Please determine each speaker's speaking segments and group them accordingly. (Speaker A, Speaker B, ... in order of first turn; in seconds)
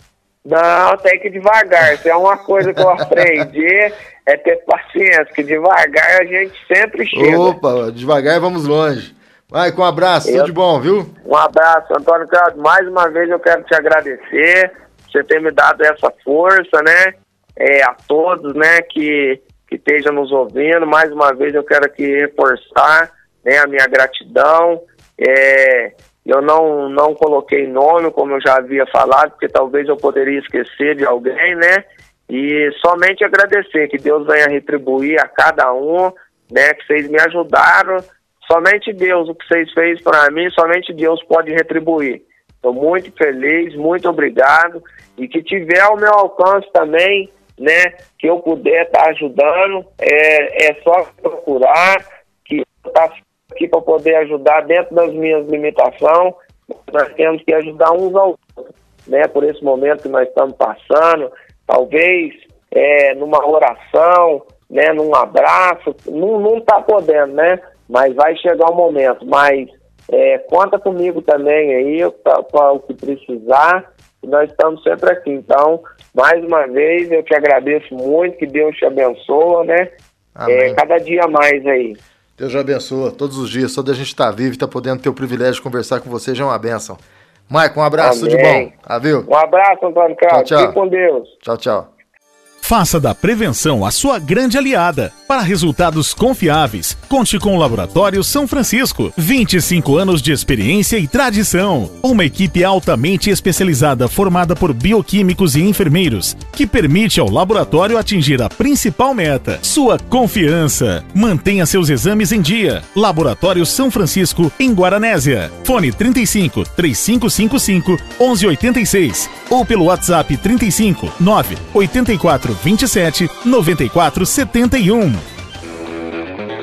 Speaker A: 0.4-7.6, 10.2-10.5, 11.2-79.9, 80.5-82.0, 88.0-88.7, 89.3-91.3
Speaker B: 7.1-11.1, 80.3-80.8, 82.4-89.3, 90.3-90.8, 91.4-91.9
Speaker C: 92.6-125.2